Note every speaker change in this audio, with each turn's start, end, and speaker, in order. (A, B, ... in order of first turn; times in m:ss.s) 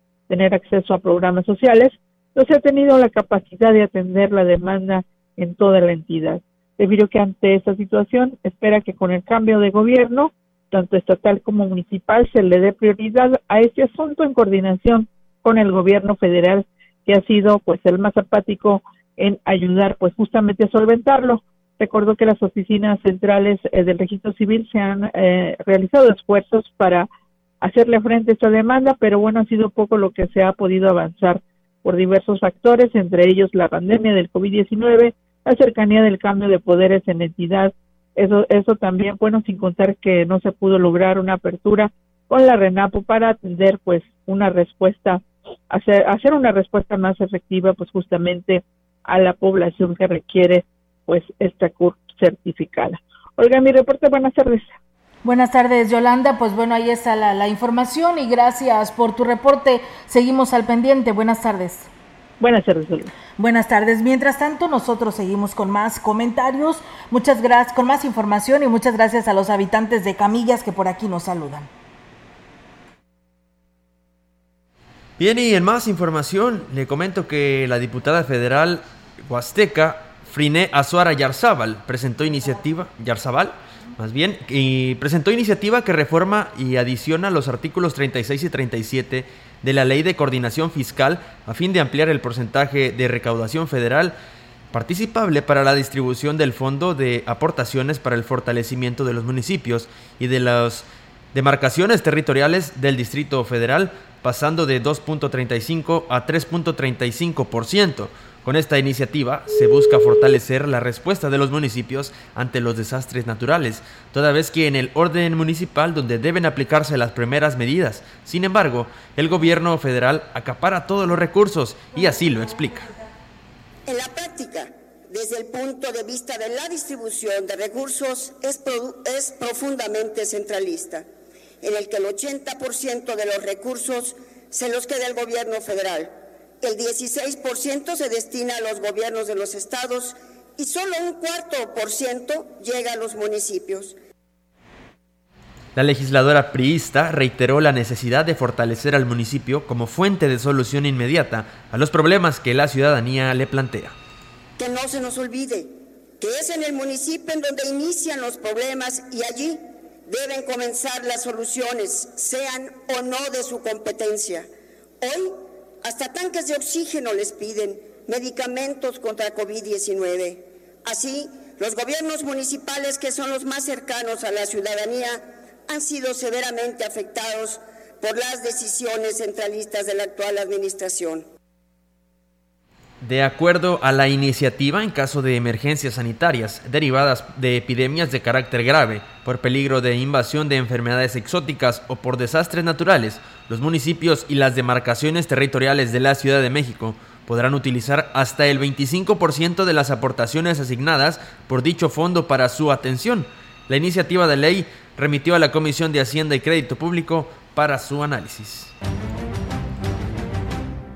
0:00.3-0:27.1 A
0:27.6-0:54.7 A
0:55.2-1:01.9 B
1:02.4-1:03.1 A
1:03.4-1:11.7 B
1:15.2-1:34.2 C
1:34.7-2:02.9 C
2:03.9-2:11.1 D
2:11.6-2:24.0 D
2:25.8-2:34.0 C
2:34.6-2:44.5 D
2:45.0-3:01.3 D
3:03.0-3:28.7 C